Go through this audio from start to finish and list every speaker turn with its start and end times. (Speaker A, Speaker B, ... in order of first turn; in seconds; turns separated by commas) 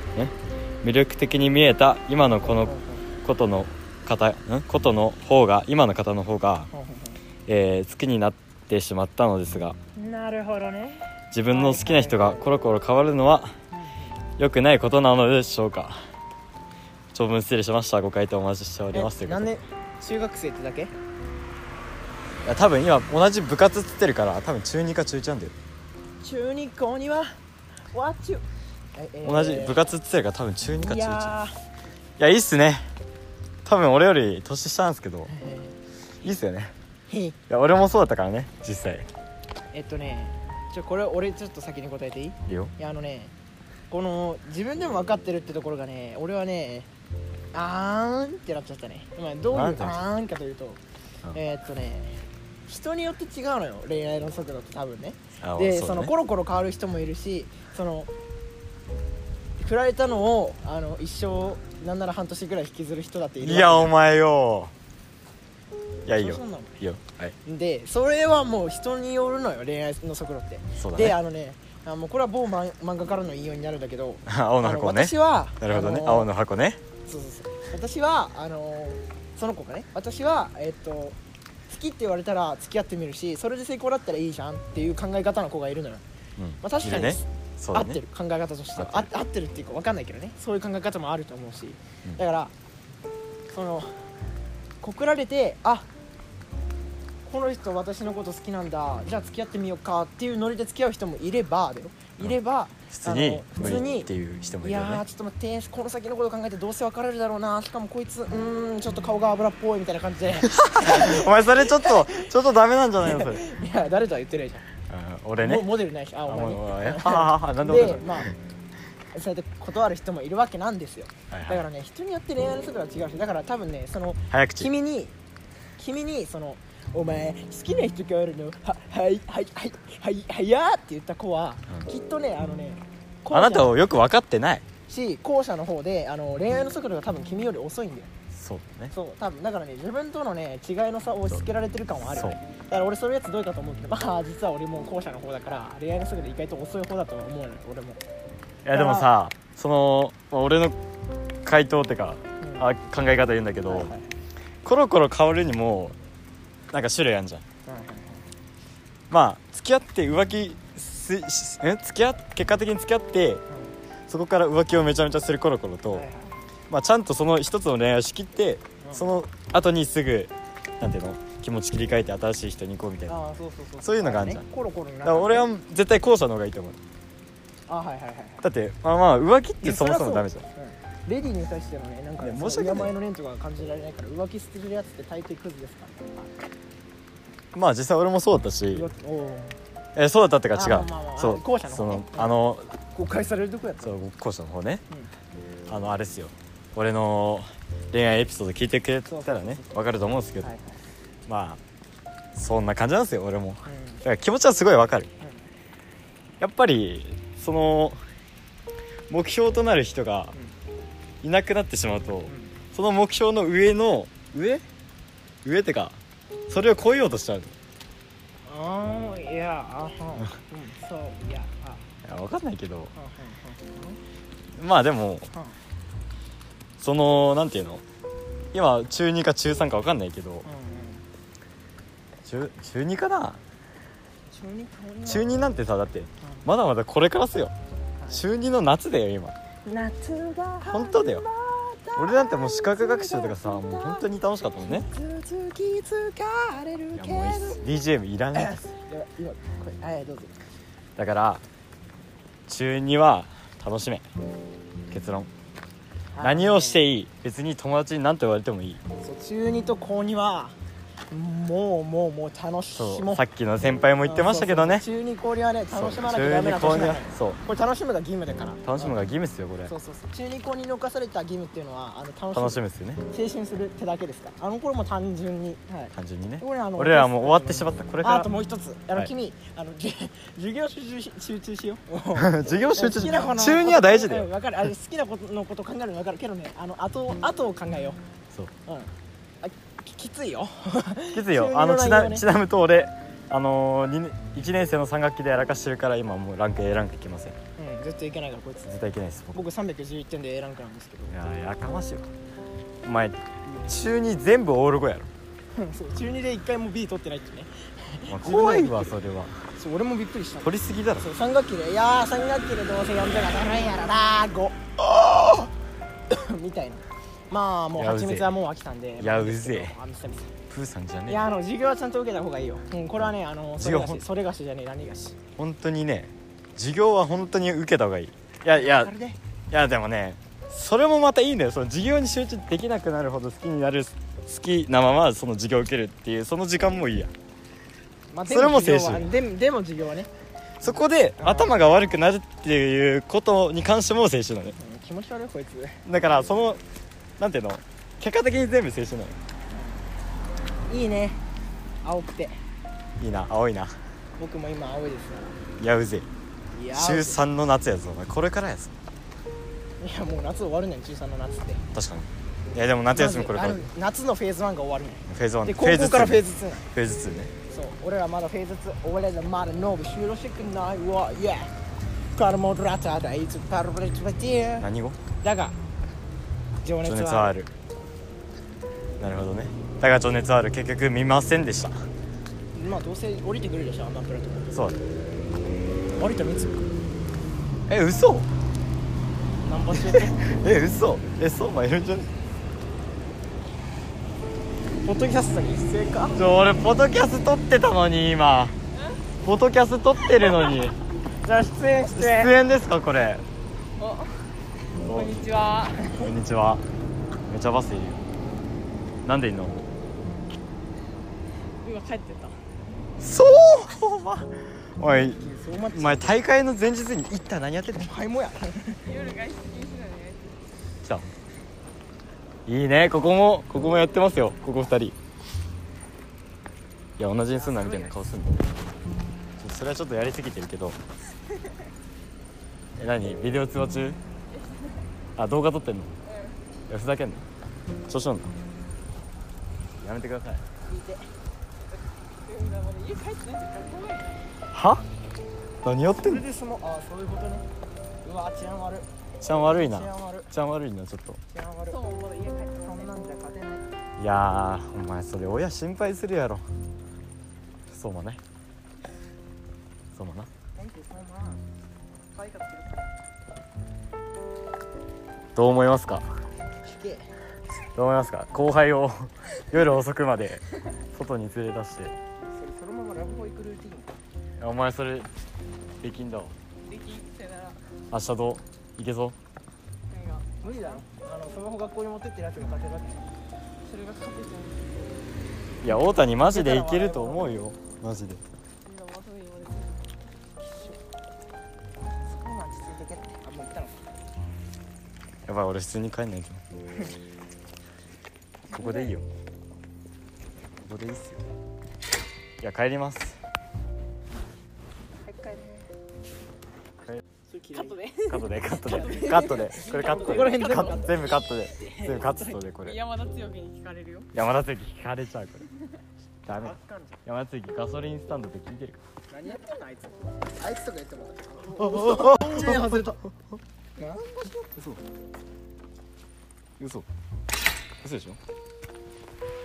Speaker A: 0.1-6.7, Speaker B: 2.2-3.0, Speaker B: 6.7-7.2, Speaker A: 7.5-9.8, Speaker B: 9.9-12.4, Speaker A: 11.3-13.5, Speaker B: 13.7-14.2, Speaker A: 14.4-16.0, Speaker A: 17.1-19.5, Speaker B: 18.9-20.9, Speaker A: 22.4-25.5, Speaker B: 26.2-27.3, Speaker B: 27.9-28.4, Speaker B: 28.9-29.9, Speaker A: 29.2-31.3, Speaker B: 30.8-31.6, Speaker A: 32.2-32.9, Speaker A: 33.6-35.3, Speaker B: 35.3-35.8, Speaker A: 36.2-36.7, Speaker B: 37.1-37.4, Speaker A: 37.5-39.1, Speaker B: 39.7-43.3, Speaker A: 42.5-42.7, Speaker B: 43.9-46.9, Speaker B: 47.5-50.8, Speaker A: 49.5-50.0, Speaker B: 51.3-58.1, Speaker A: 55.4-56.1, Speaker B: 59.6-63.9, Speaker A: 63.4-64.7, Speaker A: 66.0-67.3, Speaker B: 66.1-66.8, Speaker B: 67.4-76.3, Speaker A: 70.8-71.2, Speaker A: 74.2-76.8, Speaker B: 77.0-81.2, Speaker B: 81.7-86.0, Speaker A: 86.4-88.0, Speaker B: 86.6-92.5, Speaker A: 88.8-89.1, Speaker B: 93.5-94.1, Speaker B: 94.8-95.9, Speaker B: 97.2-104.1, Speaker A: 102.9-105.0, Speaker B: 104.6-112.3, Speaker A: 110.4-113.4, Speaker B: 113.0-114.7, Speaker A: 114.9-115.7, Speaker B: 115.4-118.3, Speaker A: 116.3-118.3, Speaker B: 119.1-125.1, Speaker A: 121.3-121.6, Speaker A: 124.3-124.7, Speaker B: 125.8-133.7, Speaker A: 133.3-134.7, Speaker B: 134.9-138.1, Speaker A: 138.3-138.9, Speaker B: 138.9-148.0, Speaker A: 142.1-142.4, Speaker A: 148.6-150.8, Speaker B: 148.7-149.1, Speaker A: 151.4-153.9, Speaker B: 152.4-152.7, Speaker B: 153.7-154.1, Speaker A: 154.6-156.0, Speaker A: 156.7-157.4, Speaker B: 157.7-158.2, Speaker A: 159.1-163.4, Speaker B: 163.5-163.7, Speaker A: 164.1-166.1, Speaker B: 165.9-166.4, Speaker A: 166.7-173.2, Speaker B: 168.8-169.1, Speaker B: 173.1-175.5, Speaker A: 173.8-174.4, Speaker A: 175.0-176.8, Speaker B: 177.7-178.4, Speaker A: 178.4-180.4, Speaker B: 179.6-186.3, Speaker A: 182.2-182.9, Speaker A: 187.5-188.9, Speaker B: 188.7-189.6, Speaker A: 189.9-192.7, Speaker B: 190.5-192.4, Speaker B: 192.9-193.9, Speaker A: 193.8-194.8, Speaker A: 195.7-200.5, Speaker B: 199.1-199.8, Speaker B: 200.4-200.8, Speaker A: 201.2-201.6, Speaker A: 202.3-205.1, Speaker B: 203.7-204.0, Speaker A: 206.4-208.0, Speaker A: 209.1-210.3, Speaker A: 211.2-214.6, Speaker B: 212.3-212.6, Speaker A: 215.4-217.5, Speaker B: 218.4-221.8, Speaker A: 222.0-222.9, Speaker B: 222.9-224.0, Speaker A: 224.5-225.3, Speaker A: 226.8-227.8, Speaker A: 228.5-230.5, Speaker B: 230.4-231.0, Speaker A: 232.2-233.4, Speaker B: 234.3-235.3, Speaker A: 235.0-237.5, Speaker B: 236.2-236.4, Speaker B: 238.0-238.2, Speaker A: 238.1-239.3, Speaker B: 239.6-244.1, Speaker A: 240.7-241.2, Speaker A: 242.0-244.9, Speaker B: 244.6-247.6, Speaker A: 246.9-248.7, Speaker B: 248.3-250.3, Speaker A: 250.9-251.4, Speaker A: 252.5-254.1, Speaker A: 254.9-255.3, Speaker B: 256.1-256.8, Speaker A: 256.2-258.8, Speaker B: 259.0-260.6, Speaker B: 261.1-263.2, Speaker A: 262.7-264.8, Speaker B: 264.0-269.0, Speaker A: 265.7-267.4, Speaker A: 268.6-269.7, Speaker B: 269.6-288.0, Speaker A: 272.3-273.0, Speaker A: 275.9-278.3, Speaker A: 282.1-284.3, Speaker B: 288.6-292.2, Speaker A: 291.1-297.4, Speaker B: 297.6-298.7, Speaker A: 298.7-299.4, Speaker B: 299.3-301.1, Speaker A: 301.1-302.1, Speaker A: 302.8-305.1, Speaker B: 305.5-308.9, Speaker A: 308.1-309.4, Speaker B: 309.5-315.5, Speaker A: 310.4-311.1, Speaker B: 316.1-320.3, Speaker A: 317.8-318.3, Speaker A: 319.0-319.8, Speaker A: 320.5-321.3, Speaker B: 321.1-325.2, Speaker A: 323.6-324.0, Speaker A: 325.4-328.9, Speaker B: 328.5-329.2, Speaker A: 329.5-337.1, Speaker B: 338.1-340.1, Speaker A: 338.3-339.1, Speaker A: 340.6-344.5, Speaker B: 340.6-341.6, Speaker B: 344.5-345.8, Speaker A: 345.8-346.6, Speaker A: 347.2-349.2, Speaker B: 349.5-349.8, Speaker B: 350.7-351.2, Speaker B: 351.8-352.4, Speaker A: 353.0-353.7, Speaker B: 354.2-355.4, Speaker A: 355.6-356.1, Speaker B: 356.5-357.2, Speaker A: 356.7-358.7, Speaker B: 359.8-361.6, Speaker A: 361.7-363.6, Speaker B: 362.9-366.7, Speaker A: 365.1-367.3, Speaker B: 367.5-371.5, Speaker B: 372.1-374.7, Speaker A: 374.6-375.0, Speaker B: 375.2-375.6, Speaker B: 376.6-377.3, Speaker A: 376.8-377.5, Speaker A: 379.0-381.9, Speaker B: 382.5-384.5, Speaker A: 384.5-384.8, Speaker B: 386.0-386.7, Speaker A: 387.7-388.3, Speaker B: 389.4-390.2, Speaker A: 389.8-392.1, Speaker B: 394.8-396.2, Speaker A: 396.1-398.5, Speaker A: 399.2-400.8, Speaker B: 401.2-402.3, Speaker A: 401.9-403.2, Speaker C: 403.8-405.9, Speaker A: 404.8-405.2, Speaker A: 405.9-406.6, Speaker A: 407.3-408.0, Speaker A: 409.0-409.6, Speaker C: 411.6-412.4, Speaker A: 413.0-417.9, Speaker B: 415.1-416.2, Speaker B: 417.8-418.9, Speaker C: 418.8-420.4, Speaker A: 420.8-421.1, Speaker A: 422.4-424.9, Speaker A: 427.0-428.4, Speaker B: 427.3-428.0, Speaker A: 429.4-430.8, Speaker A: 432.8-434.0, Speaker C: 434.3-434.8, Speaker A: 435.2-435.9, Speaker C: 436.1-436.4, Speaker A: 436.7-437.2, Speaker A: 437.9-438.3, Speaker A: 439.8-440.4, Speaker B: 440.7-441.1, Speaker C: 442.2-444.3, Speaker A: 444.5-444.8, Speaker A: 445.6-446.2, Speaker B: 445.9-447.4, Speaker B: 448.0-450.3, Speaker A: 449.2-451.2, Speaker B: 451.3-451.8, Speaker C: 451.7-453.0, Speaker B: 452.6-453.6, Speaker A: 454.0-456.4, Speaker A: 457.7-458.2, Speaker A: 459.9-460.3, Speaker B: 460.5-461.4, Speaker B: 462.1-462.9, Speaker A: 465.3-466.0, Speaker B: 466.6-467.1, Speaker A: 467.7-471.9, Speaker B: 472.3-474.0, Speaker A: 474.4-475.1, Speaker A: 475.8-476.3, Speaker C: 476.6-477.6, Speaker A: 477.9-479.2, Speaker C: 479.9-480.8, Speaker B: 480.4-483.0, Speaker C: 483.6-485.1, Speaker A: 485.6-488.2, Speaker B: 486.2-487.4, Speaker C: 488.6-489.9, Speaker B: 492.1-493.8, Speaker A: 495.2-496.4, Speaker A: 498.5-499.1, Speaker C: 498.5-498.9, Speaker A: 500.6-501.2, Speaker A: 502.4-503.2, Speaker B: 505.1-505.6, Speaker B: 507.3-512.3, Speaker C: 507.6-511.1, Speaker A: 508.1-512.8, Speaker C: 512.6-514.1, Speaker A: 514.1-515.5, Speaker A: 516.2-518.8, Speaker B: 516.3-517.0, Speaker B: 519.1-523.0, Speaker A: 521.5-523.0, Speaker B: 523.8-524.5, Speaker A: 526.6-526.9, Speaker A: 527.8-528.2